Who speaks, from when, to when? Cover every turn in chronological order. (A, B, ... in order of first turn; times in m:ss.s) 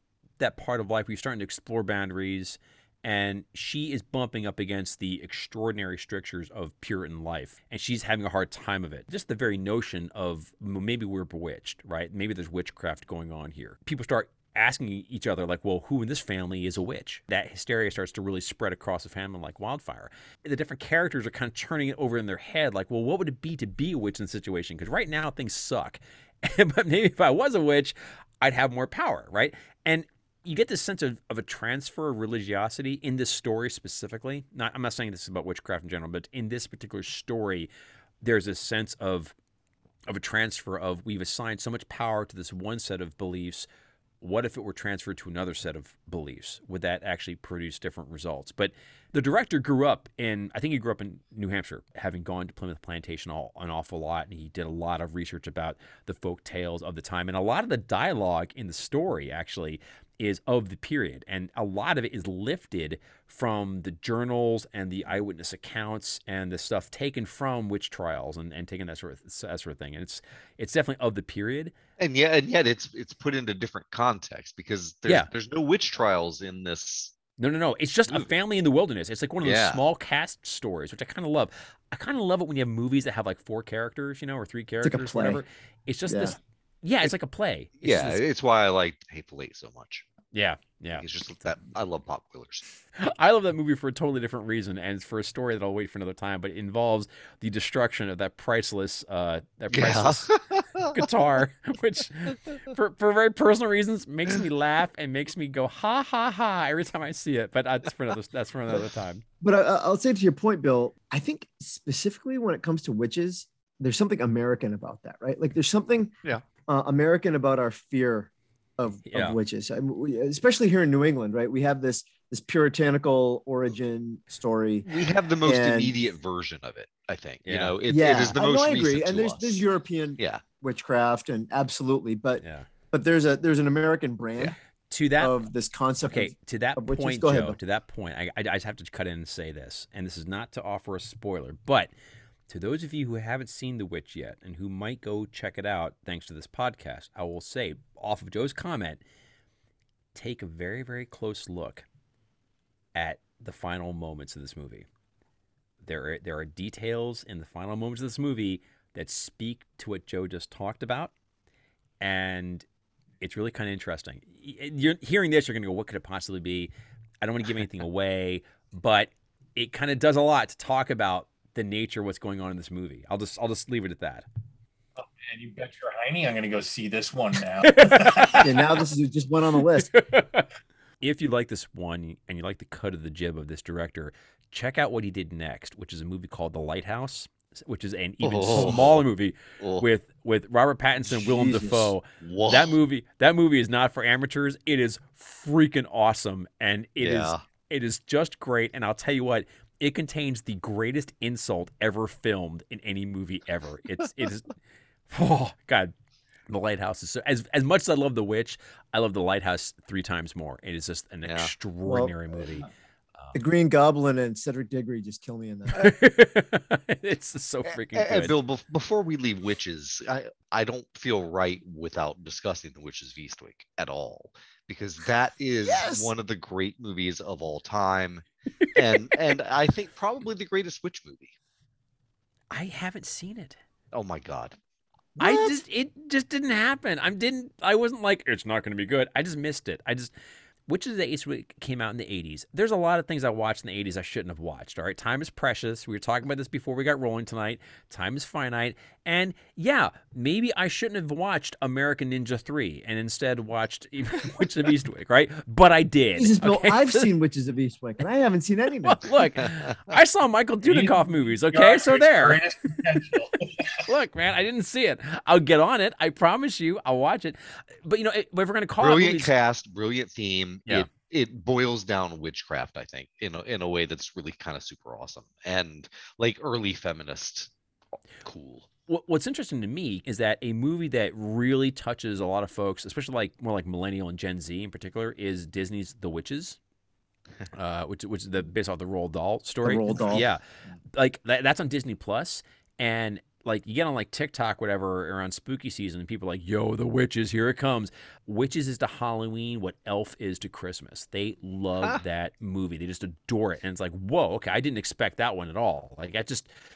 0:00.4-0:37.7 A
0:38.2-0:39.3 A
0:40.1-0:43.7 A
0:44.2-1:11.7 A
1:12.0-1:17.1 B
1:17.4-1:28.2 A
1:19.4-1:19.8 B
1:24.8-1:25.4 C
1:26.1-1:26.4 C
1:27.8-1:30.0 B
1:30.3-1:31.0 A
1:31.0-1:32.6 B
1:33.0-1:40.3 A
1:39.7-1:41.1 B
1:40.9-1:49.2 A
1:49.4-2:04.9 C
1:59.1-1:59.4 A
2:04.8-2:09.6 B
2:05.4-2:06.0 C
2:07.4-2:07.7 A
2:07.9-2:14.6 C
2:10.2-2:10.4 B
2:12.4-2:12.7 A
2:14.9-2:15.4 A
2:15.2-2:17.6 C
2:16.1-2:21.9 A
2:22.5-2:29.0 A
2:30.1-2:31.8 A
2:32.9-2:34.9 A
2:35.8-2:41.1 A
2:42.0-2:42.6 A
2:43.2-2:46.7 A
2:47.2-2:54.2 A
2:55.0-2:58.5 D
2:57.7-2:58.5 A
2:58.4-2:59.9 C
2:59.8-3:00.5 A
3:01.0-3:24.5 A
3:08.2-3:09.0 B
3:08.5-3:08.8 C
3:09.6-3:09.8 B
3:11.0-3:11.9 C
3:12.2-3:12.8 B
3:17.0-3:17.4 B
3:25.1-3:25.9 A
3:26.5-3:33.3 A
3:31.2-3:31.5 B
3:31.8-3:32.1 C
3:33.3-3:35.9 C
3:35.7-3:38.3 A
3:37.9-3:51.3 B
3:45.6-3:46.1 C
3:52.5-3:53.6 A
3:53.9-3:54.6 B
3:55.2-3:55.6 C
3:55.2-4:00.1 A
4:00.7-4:17.1 A
4:16.2-4:19.1 C
4:18.8-4:22.4 A
4:19.4-4:19.9 B
4:20.6-4:23.8 D
4:23.8-4:29.3 A
4:28.8-4:37.5 B
4:38.2-4:38.7 B
4:38.9-4:46.6 A
4:47.5-4:50.4 A
4:49.6-4:50.3 C
4:50.9-5:06.5 A